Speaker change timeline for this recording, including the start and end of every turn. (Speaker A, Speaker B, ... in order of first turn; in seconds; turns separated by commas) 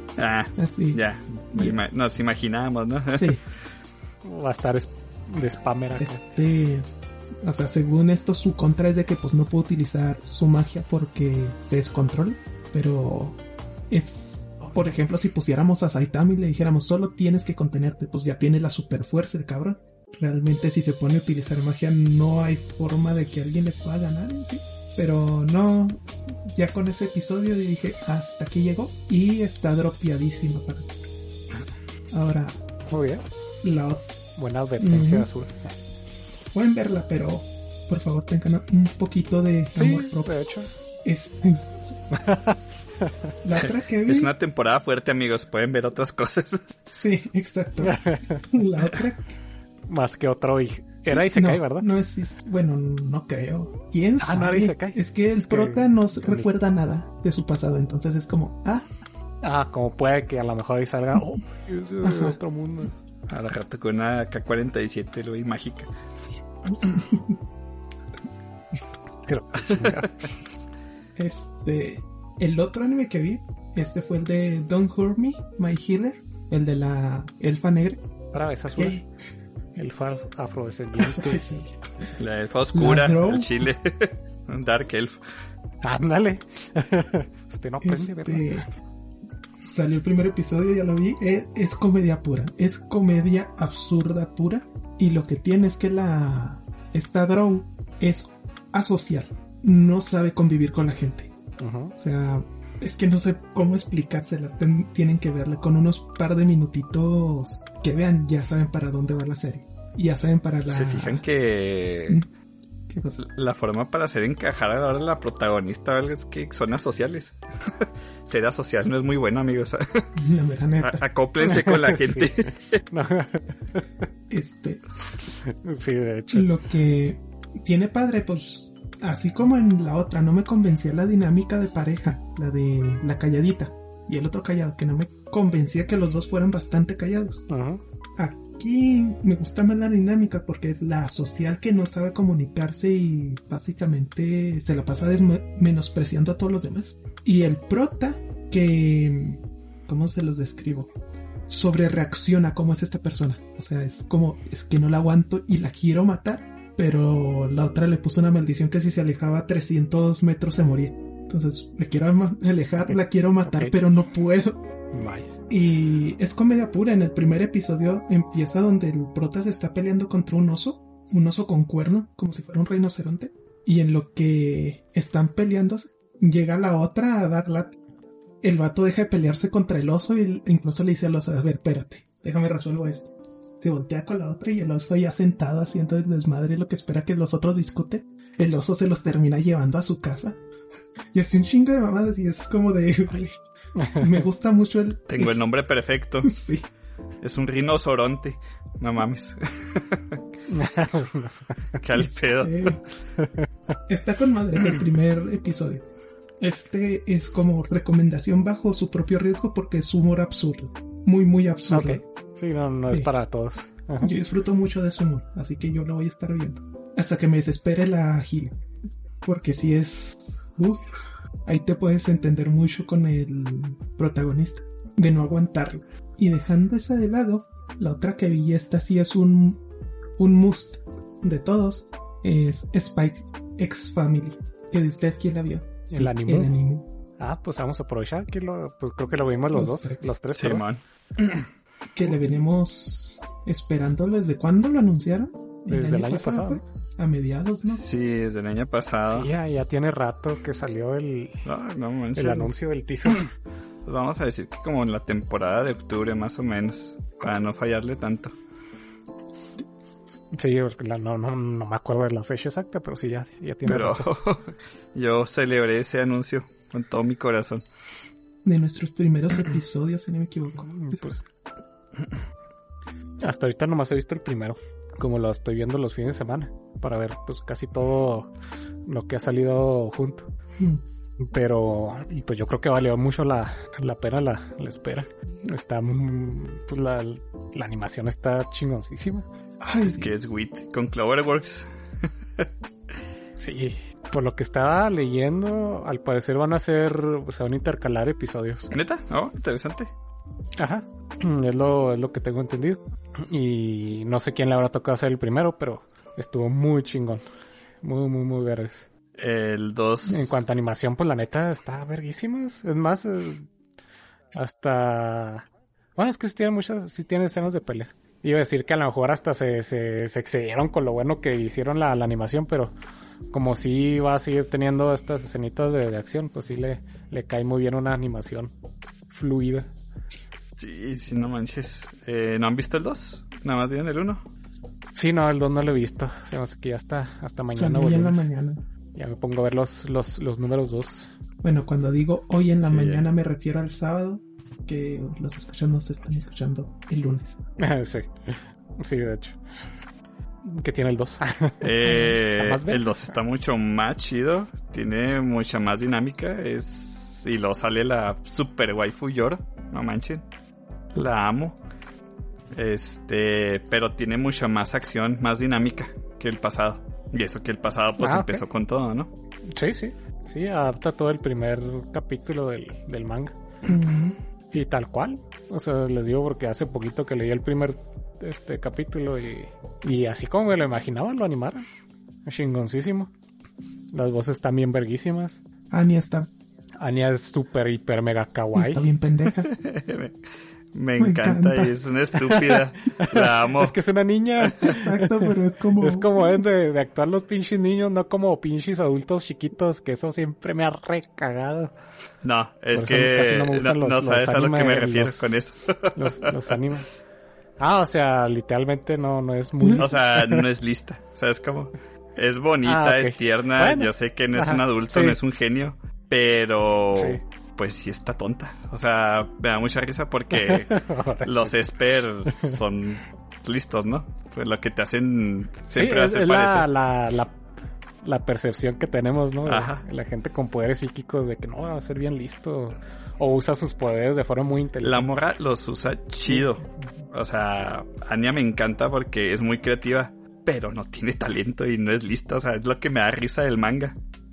Speaker A: 0.2-3.4, Speaker B: 0.6-1.0, Speaker B: 3.1-3.4, Speaker C: 4.2-6.2, Speaker B: 6.0-6.9, Speaker B: 7.4-13.4, Speaker B: 13.9-30.9, Speaker B: 32.1-32.6, Speaker C: 32.9-33.2, Speaker B: 33.6-34.0, Speaker C: 34.4-35.8, Speaker B: 34.8-35.3, Speaker B: 36.5-40.3, Speaker C: 39.8-40.7, Speaker B: 41.0-41.6, Speaker C: 42.1-42.6, Speaker B: 43.4-44.3, Speaker A: 44.0-46.6, Speaker B: 46.9-49.3, Speaker C: 47.8-48.4, Speaker C: 49.9-51.9, Speaker B: 51.0-58.9, Speaker C: 54.2-56.5, Speaker C: 59.4-62.9, Speaker B: 62.0-62.4, Speaker A: 63.3-65.9, Speaker B: 66.7-67.4, Speaker C: 69.2-70.3, Speaker A: 69.6-70.1, Speaker B: 71.2-78.0, Speaker C: 78.3-79.0, Speaker B: 78.8-79.0, Speaker C: 79.7-81.5, Speaker B: 81.0-81.8, Speaker A: 82.2-85.4, Speaker B: 82.7-83.7, Speaker C: 85.8-88.6, Speaker B: 87.8-88.7, Speaker B: 89.6-101.3, Speaker C: 101.6-101.9, Speaker B: 102.0-111.2, Speaker A: 110.7-112.2, Speaker B: 112.9-113.2, Speaker A: 113.2-120.1, Speaker B: 120.2-121.0, Speaker A: 120.8-122.8, Speaker C: 121.4-122.3, Speaker C: 122.9-123.8, Speaker B: 124.3-124.8, Speaker C: 125.2-126.5, Speaker B: 126.3-137.4, Speaker C: 137.5-137.8, Speaker B: 138.2-150.9, Speaker B: 151.5-164.6, Speaker C: 163.4-163.7, Speaker C: 164.9-165.3, Speaker B: 165.5-177.7, Speaker B: 178.4-190.4, Speaker B: 191.1-195.3, Speaker A: 195.1-196.4, Speaker B: 196.2-196.6, Speaker A: 197.2-200.2, Speaker C: 200.5-201.8, Speaker A: 201.8-202.8, Speaker B: 201.9-202.8, Speaker C: 203.2-203.5, Speaker B: 203.9-205.8, Speaker B: 206.4-212.0, Speaker C: 211.7-214.1, Speaker B: 214.0-218.6, Speaker B: 219.2-229.6, Speaker B: 230.2-236.8, Speaker C: 235.9-236.5, Speaker C: 237.2-240.6, Speaker B: 239.5-240.1, Speaker A: 240.3-241.5, Speaker B: 241.9-247.8, Speaker C: 245.7-246.6, Speaker A: 247.6-249.3, Speaker C: 249.1-251.4, Speaker A: 251.4-252.5, Speaker C: 252.1-253.3, Speaker A: 253.8-258.3, Speaker C: 260.3-264.1, Speaker A: 263.6-267.6, Speaker B: 268.4-270.7, Speaker C: 270.6-271.2, Speaker C: 273.2-278.3, Speaker C: 278.9-280.3, Speaker C: 281.2-289.2, Speaker B: 289.6-290.1, Speaker A: 289.8-292.5, Speaker C: 293.4-298.7, Speaker A: 298.7-299.9, Speaker C: 300.6-307.2, Speaker C: 307.8-308.9, Speaker A: 309.2-310.4, Speaker C: 310.1-313.5, Speaker C: 314.3-322.7, Speaker C: 323.3-328.5, Speaker C: 329.1-329.7, Speaker A: 330.6-334.2, Speaker C: 334.9-338.3, Speaker B: 337.5-338.6, Speaker C: 338.9-341.1, Speaker B: 341.4-347.4, Speaker A: 342.6-343.1, Speaker C: 347.6-349.4, Speaker C: 350.4-353.1, Speaker A: 351.6-360.2, Speaker A: 360.9-361.6, Speaker A: 362.5-369.1, Speaker C: 368.0-368.4, Speaker C: 369.5-373.3, Speaker B: 373.6-374.2, Speaker C: 374.5-381.6, Speaker C: 382.2-383.1, Speaker C: 383.9-385.4, Speaker B: 385.7-386.3, Speaker C: 386.8-388.9, Speaker B: 388.5-389.5, Speaker A: 389.5-390.1, Speaker A: 390.7-393.7, Speaker B: 391.0-391.7, Speaker C: 392.2-401.7, Speaker B: 394.6-396.4, Speaker A: 402.2-406.6, Speaker C: 402.7-405.4, Speaker C: 405.9-406.9, Speaker C: 407.6-410.4, Speaker A: 409.8-426.7, Speaker C: 412.6-415.2, Speaker C: 416.9-417.2, Speaker C: 420.3-421.7, Speaker C: 422.2-422.6, Speaker C: 425.7-427.4, Speaker C: 428.0-435.1, Speaker A: 429.4-429.8, Speaker A: 434.8-444.0